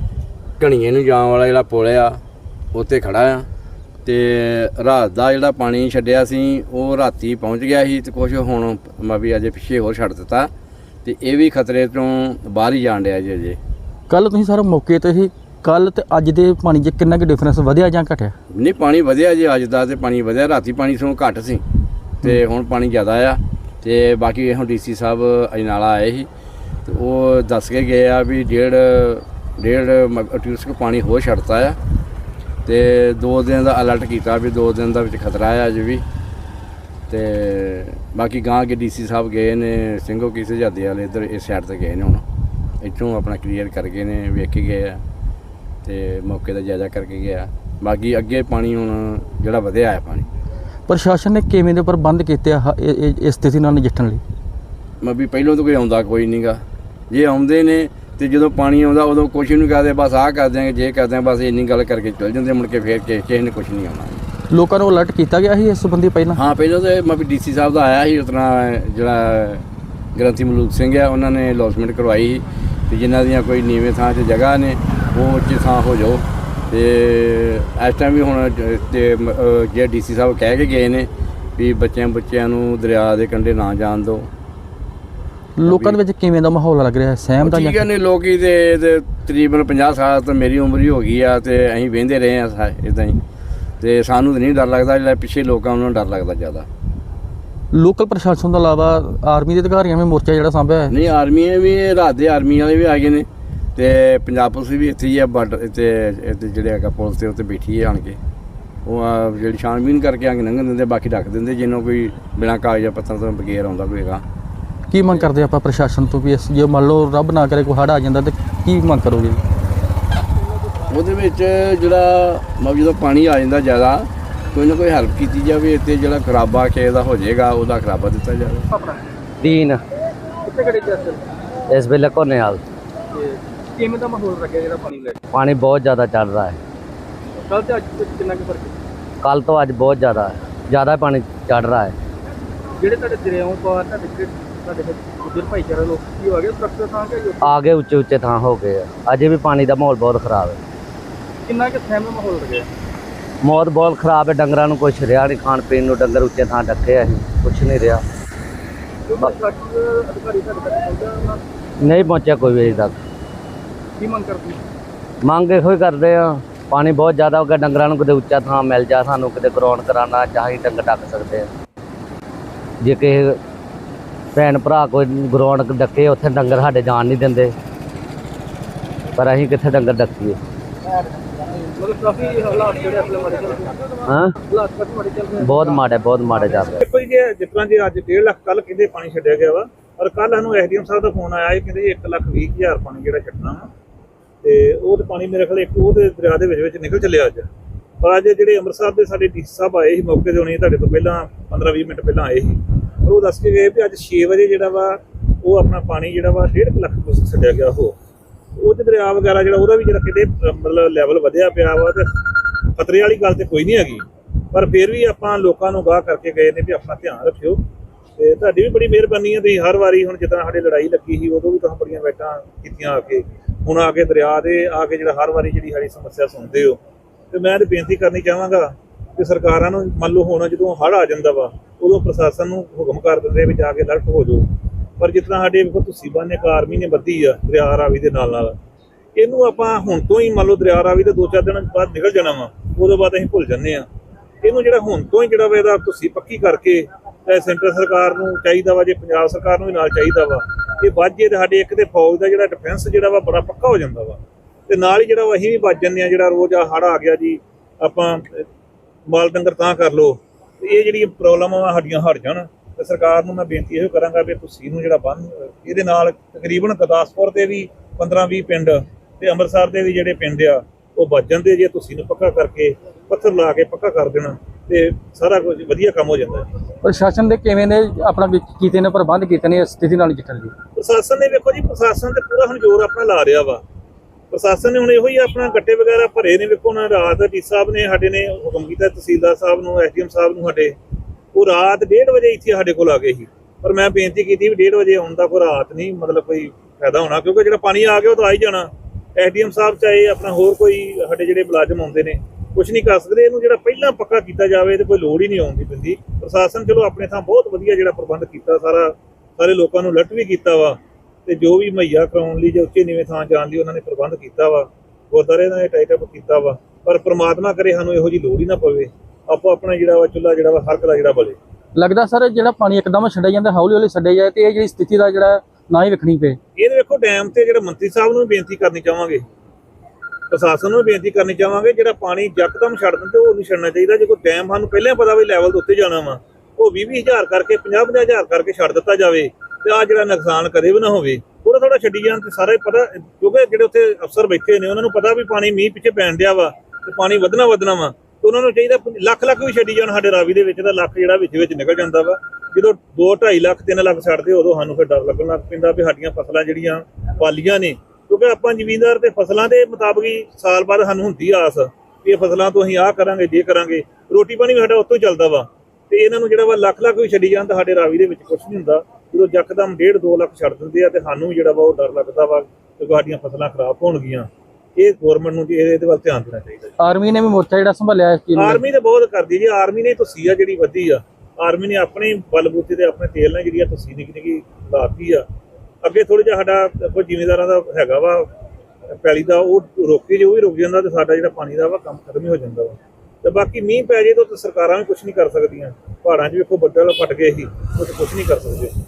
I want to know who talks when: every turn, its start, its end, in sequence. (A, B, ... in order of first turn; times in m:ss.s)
0:00.6-0:02.2 A
0:02.7-0:03.5 A
0:04.0-0:10.5 A
0:11.0-0:13.6 A
0:14.1-0:18.3 B
0:18.5-0:21.6 A
0:22.2-0:26.3 A
0:26.8-0:31.8 A
0:32.6-0:36.0 A
0:37.1-0:42.2 A
0:42.8-0:45.0 A
0:45.8-0:50.2 A
0:50.9-0:54.2 B
0:55.0-1:04.2 A
1:04.5-1:06.4 B
1:06.4-1:24.3 A
1:25.6-1:27.8 B
1:25.6-1:26.0 A
1:27.4-1:33.2 A
1:33.8-1:36.7 A
1:37.7-1:40.9 B
1:40.9-1:48.2 A
1:48.8-1:54.2 A
1:54.9-1:59.4 B
2:00.9-2:08.7 A
2:08.7-2:09.0 C
2:09.4-2:09.8 D
2:10.4-2:11.2 C
2:11.7-2:12.6 D
2:13.1-2:15.2 C
2:15.3-2:16.6 D
2:17.5-2:18.8 C
2:19.2-2:21.9 D
2:22.8-2:27.5 C
2:27.4-2:30.6 D
2:31.5-2:32.7 C
2:33.4-2:38.0 D
2:39.1-2:41.4 C
2:41.8-2:42.9 D
2:44.0-2:44.6 C
2:45.2-2:51.5 D
2:52.8-2:53.4 D
2:54.3-2:57.5 D
2:59.2-3:00.4 D
3:01.8-3:03.7 C
3:04.1-3:04.4 D
3:04.5-3:05.8 C
3:05.4-3:06.8 D
3:06.8-3:13.7 E
3:14.4-3:17.5 E
3:18.0-3:27.9 E
3:28.6-3:37.6 E
3:38.2-3:46.8 E
3:47.3-3:58.6 E
3:59.2-4:03.8 E
4:04.4-4:18.4 E
4:19.1-4:36.4 E
4:36.8-4:40.5 B
4:40.8-4:43.6 E
4:44.3-4:50.7 E
4:51.3-5:21.4 E
5:21.8-5:26.4 B
5:26.6-5:29.2 E
5:30.3-6:16.7 E
6:16.8-6:18.6 B
6:18.4-6:25.2 E
6:25.8-6:28.3 E
6:29.0-6:38.7 E